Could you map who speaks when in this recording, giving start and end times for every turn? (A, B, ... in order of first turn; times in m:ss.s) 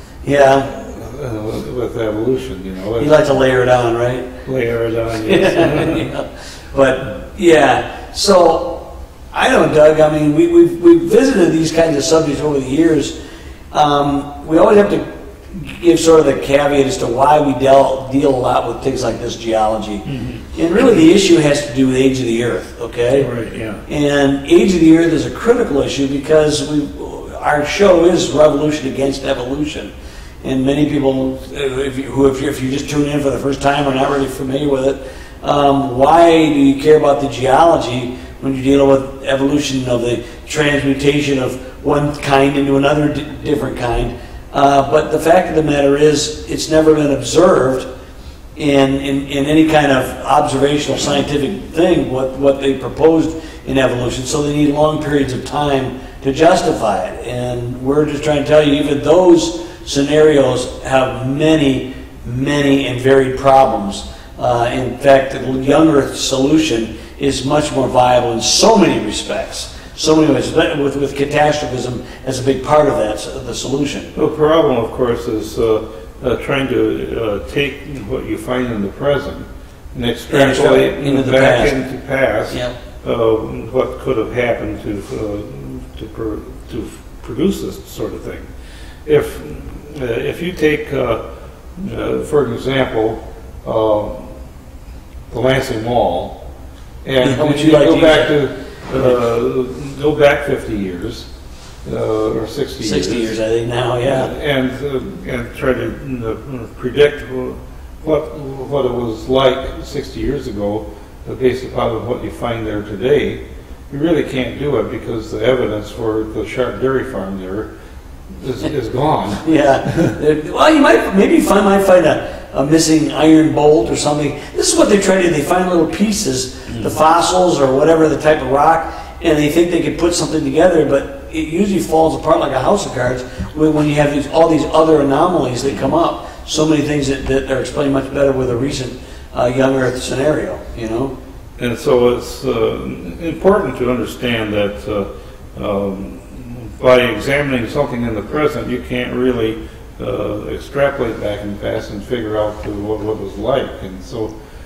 0:00.2-0:00.7 A
0:00.5-0:03.2 B
0:03.0-0:04.3 A
0:04.4-0:06.1 B
0:05.2-0:13.1 A
0:13.7-0:23.3 A
0:20.0-0:20.4 B
0:23.1-0:23.8 B
0:23.8-0:47.9 A
0:48.6-1:14.1 A
1:14.1-1:28.5 B
1:20.3-1:21.7 A
1:29.0-1:31.2 B
1:31.8-1:34.3 B
1:35.3-1:36.4 B
1:37.0-1:41.3 B
1:37.2-1:38.4 A
1:41.8-1:43.4 B
1:42.8-1:44.3 A
1:44.0-1:57.7 B
1:58.3-2:00.2 B
1:59.4-2:21.1 A
2:21.6-2:34.3 B